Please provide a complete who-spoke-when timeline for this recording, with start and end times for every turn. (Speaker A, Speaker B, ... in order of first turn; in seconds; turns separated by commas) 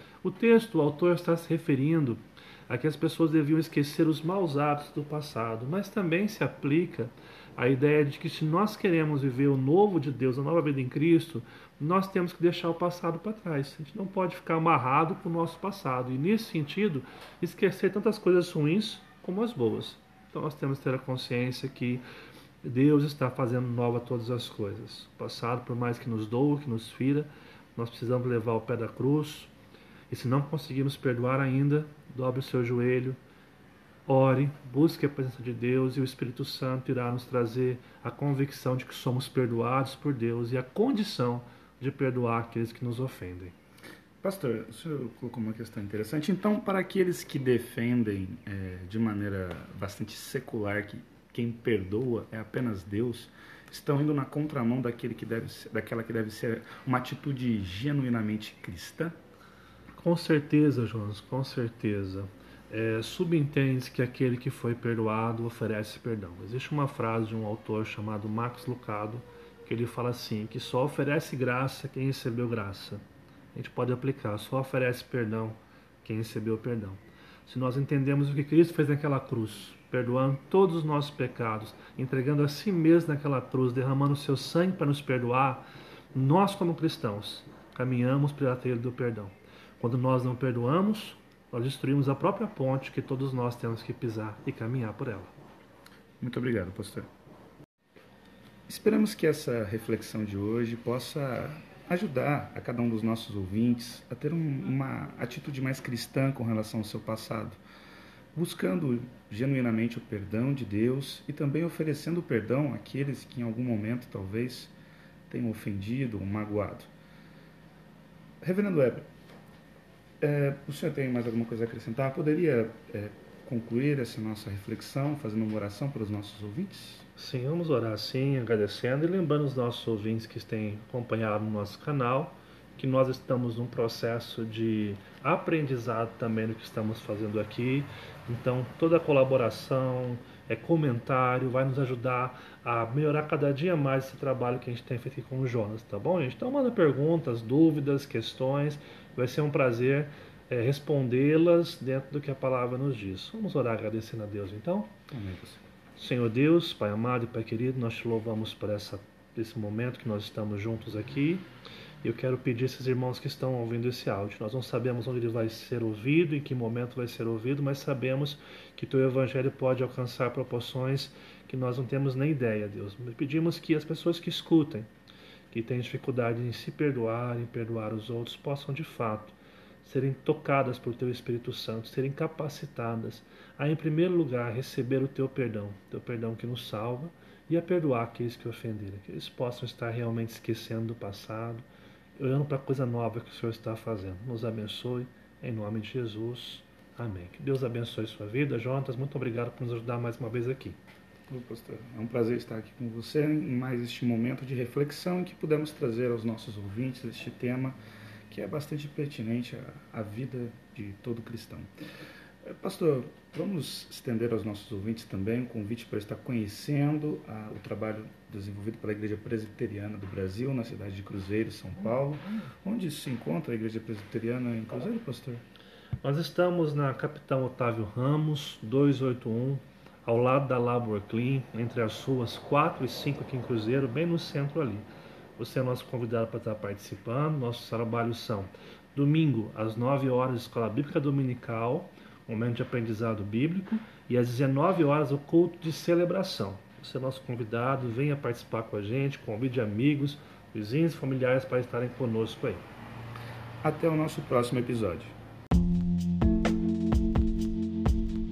Speaker A: 0.2-22.0, Speaker A: 22.6-29.5, Speaker A: 30.1-33.2, Speaker A: 34.1-43.5, Speaker B: 44.2-59.2, Speaker A: 59.9-73.0, Speaker A: 73.5-95.3, Speaker B: 96.2-97.1, Speaker B: 98.7-107.6, Speaker B: 108.3-114.7, Speaker B: 115.3-116.9, Speaker B: 118.4-119.1, Speaker B: 120.2-127.1, Speaker A: 127.2-154.9, Speaker B: 155.1-155.6, Speaker A: 156.0-161.5, Speaker A: 162.0-174.9, Speaker A: 175.5-191.7, Speaker A: 192.2-200.8, Speaker B: 201.3-207.8, Speaker B: 208.3-211.7, Speaker B: 212.4-225.4, Speaker A: 226.0-252.6, Speaker B: 253.6-255.2